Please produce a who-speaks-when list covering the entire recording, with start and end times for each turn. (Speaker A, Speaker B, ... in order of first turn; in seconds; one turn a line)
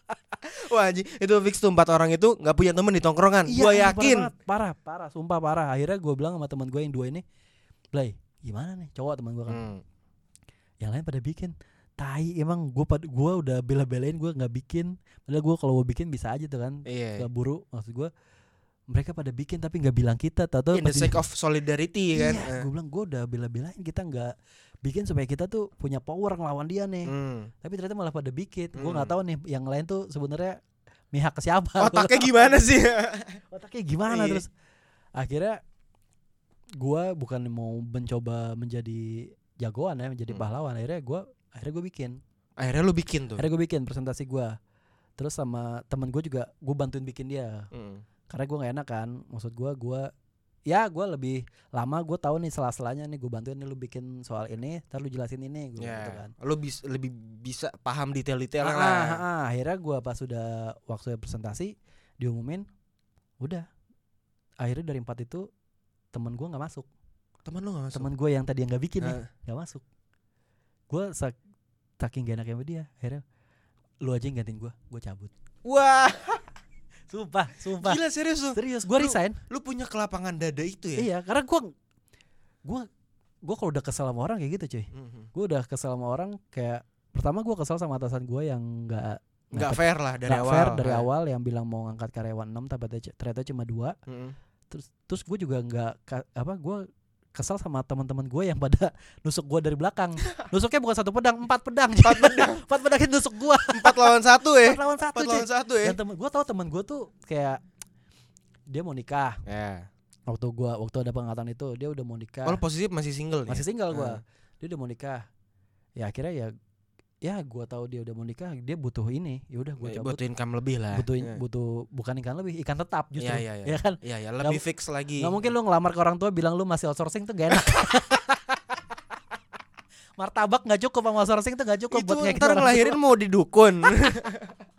Speaker A: 0.5-4.3
Speaker B: 3.5-7.2
Speaker B: 7.9-9.7
Speaker A: 9.5-9.8
Speaker B: 10.8-18.1
Speaker A: 16.9-17.2
Speaker B: 18.9-21.2
Speaker A: 20.7-22.7
Speaker B: 22.1-30.6
Speaker A: 27.1-27.5
Speaker A: 28.8-29.1
Speaker B: 31.1-32.6
Speaker A: 31.8-33.4
Speaker B: 33.5-34.5
Speaker A: 34.1-34.4
Speaker B: 35.2-35.6
Speaker B: 36.8-42.2
Speaker A: 42.6-43.4
Speaker B: 43.4-44.5
Speaker B: 45.2-47.7
Speaker A: 47.7-48.0
Speaker B: 48.3-50.1
Speaker B: 50.7-56.3
Speaker A: 55.8-59.2
Speaker B: 58.6-62.6
Speaker B: 64.6-65.5
Speaker B: 66.1-66.9
Speaker A: 67.5-68.1
Speaker B: 67.9-69.8
Speaker A: 69.0-69.3
Speaker B: 70.9-71.4
Speaker B: 72.0-73.2
Speaker B: 74.0-75.3
Speaker A: 75.6-76.5
Speaker B: 77.1-78.0
Speaker A: 77.8-81.1
Speaker B: 78.5-79.4
Speaker B: 81.0-81.7
Speaker B: 83.5-94.0
Speaker A: 84.9-85.3
Speaker A: 89.6-91.1
Speaker A: 94.1-94.4
Speaker B: 94.7-107.6
Speaker A: 102.0-102.7
Speaker A: 103.7-106.0
Speaker B: 108.7-109.4
Speaker A: 109.5-109.9
Speaker B: 110.3-112.6
Speaker A: 112.5-114.2
Speaker B: 113.5-115.2
Speaker B: 116.0-116.5
Speaker B: 117.2-120.2
Speaker A: 119.8-121.4
Speaker B: 120.9-124.6
Speaker A: 123.2-125.5
Speaker B: 125.2-128.6
Speaker B: 130.2-133.0
Speaker A: 131.9-134.5